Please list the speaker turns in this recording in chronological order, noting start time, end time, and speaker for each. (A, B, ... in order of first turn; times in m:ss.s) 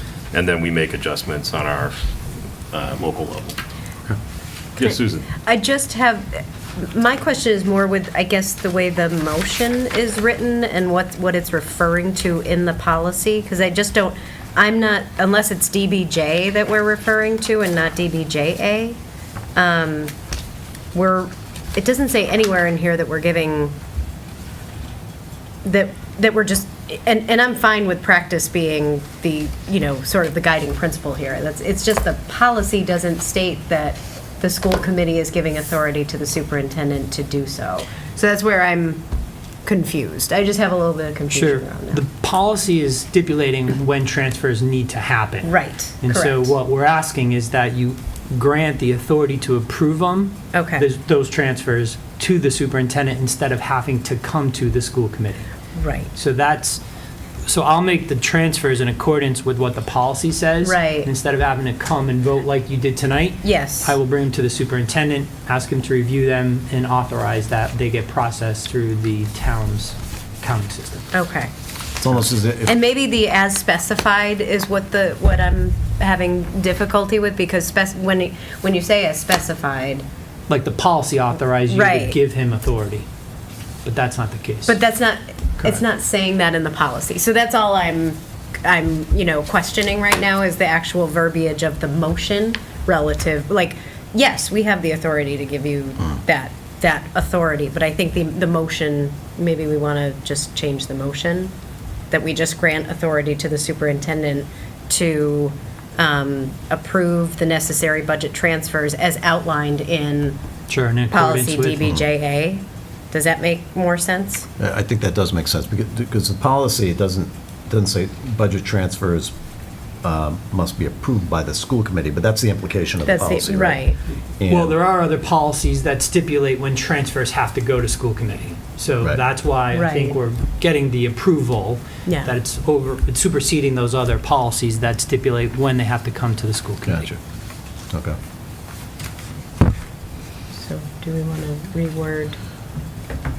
0:00.3-0:02.0 A
0:02.7-0:03.6 A
0:04.8-0:05.3 A
0:04.8-0:19.0 B
0:19.6-0:20.1 B
0:20.9-0:23.7 B
0:25.6-0:39.0 B
0:39.7-0:42.0 B
0:41.3-0:55.5 C
0:45.4-0:46.5 B
0:50.5-0:50.9 B
0:55.8-0:56.1 B
0:56.2-0:56.8 C
0:57.5-1:11.1 C
1:00.6-1:01.1 B
1:03.4-1:03.9 B
1:11.1-1:11.5 B
1:12.0-1:12.8 D
1:12.7-1:20.0 B
1:20.5-1:23.1 C
1:21.7-1:22.2 B
1:23.8-1:24.8 C
1:24.7-1:41.5 B
1:42.1-1:50.4 B
1:50.7-1:51.9 C
1:51.1-1:54.5 B
1:54.6-1:59.3 D
2:00.0-2:03.8 D
2:03.0-2:04.0 B
2:04.4-2:04.8 D
2:04.4-2:17.1 C
2:09.7-2:10.2 B
2:12.1-2:12.3 B
2:16.8-2:17.2 D
2:17.9-2:18.2 D
2:20.6-2:22.4 B